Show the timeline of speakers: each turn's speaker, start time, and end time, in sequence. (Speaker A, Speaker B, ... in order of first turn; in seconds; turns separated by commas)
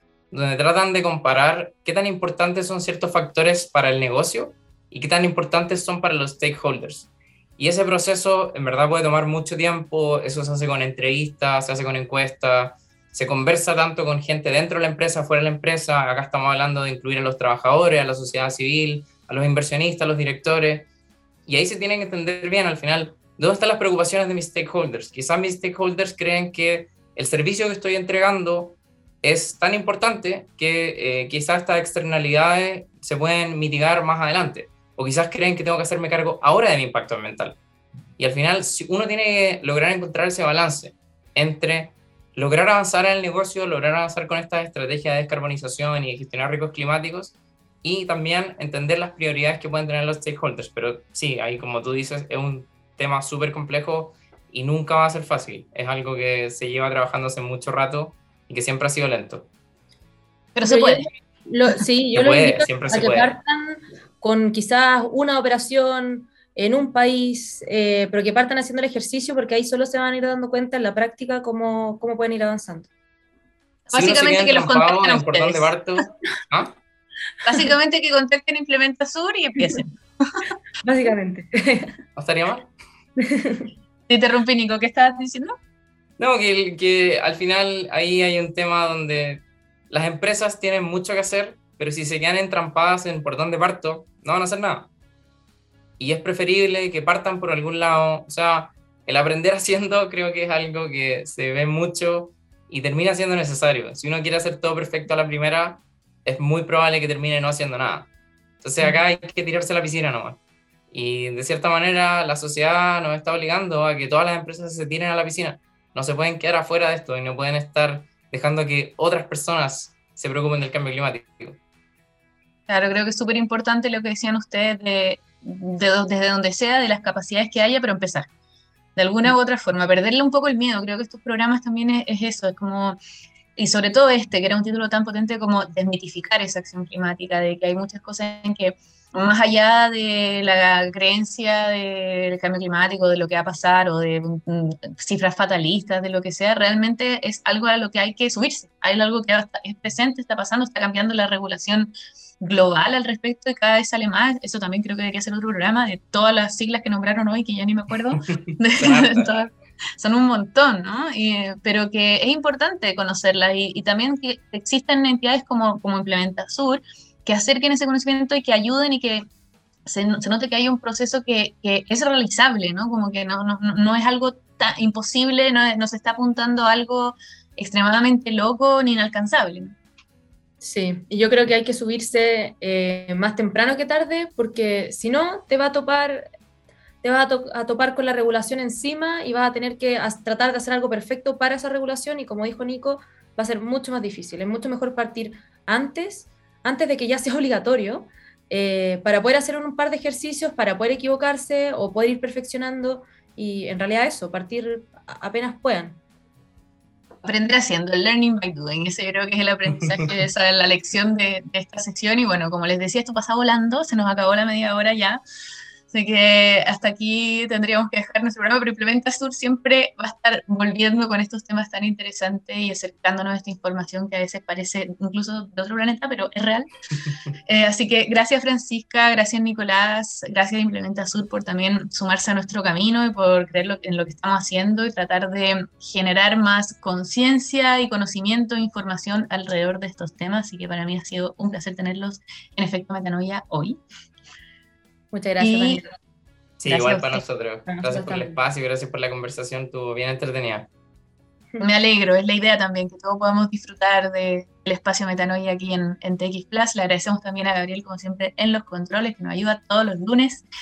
Speaker A: 0.3-20.9, Speaker A: 21.5-37.6, Speaker A: 38.2-59.5, Speaker B: 60.5-61.1, Speaker C: 60.6-72.9, Speaker A: 62.1-63.3, Speaker B: 73.9-75.8, Speaker A: 73.9-76.8, Speaker B: 77.5-80.0, Speaker C: 80.8-82.0, Speaker A: 82.2-82.7, Speaker C: 83.2-83.7, Speaker B: 84.1-85.6, Speaker A: 86.2-94.9, Speaker A: 96.0-108.1, Speaker A: 108.6-110.4, Speaker A: 110.9-121.6, Speaker B: 122.7-128.3, Speaker B: 129.0-133.0, Speaker B: 133.6-169.2, Speaker A: 158.5-159.3, Speaker B: 169.9-179.8, Speaker C: 180.6-186.3, Speaker C: 187.0-206.0, Speaker B: 207.2-215.2, Speaker B: 215.9-226.7, Speaker B: 227.5-243.8, Speaker C: 245.1-245.8, Speaker B: 245.4-245.8, Speaker A: 246.6-250.7, Speaker B: 246.7-247.2, Speaker C: 247.7-248.3, Speaker B: 251.6-260.4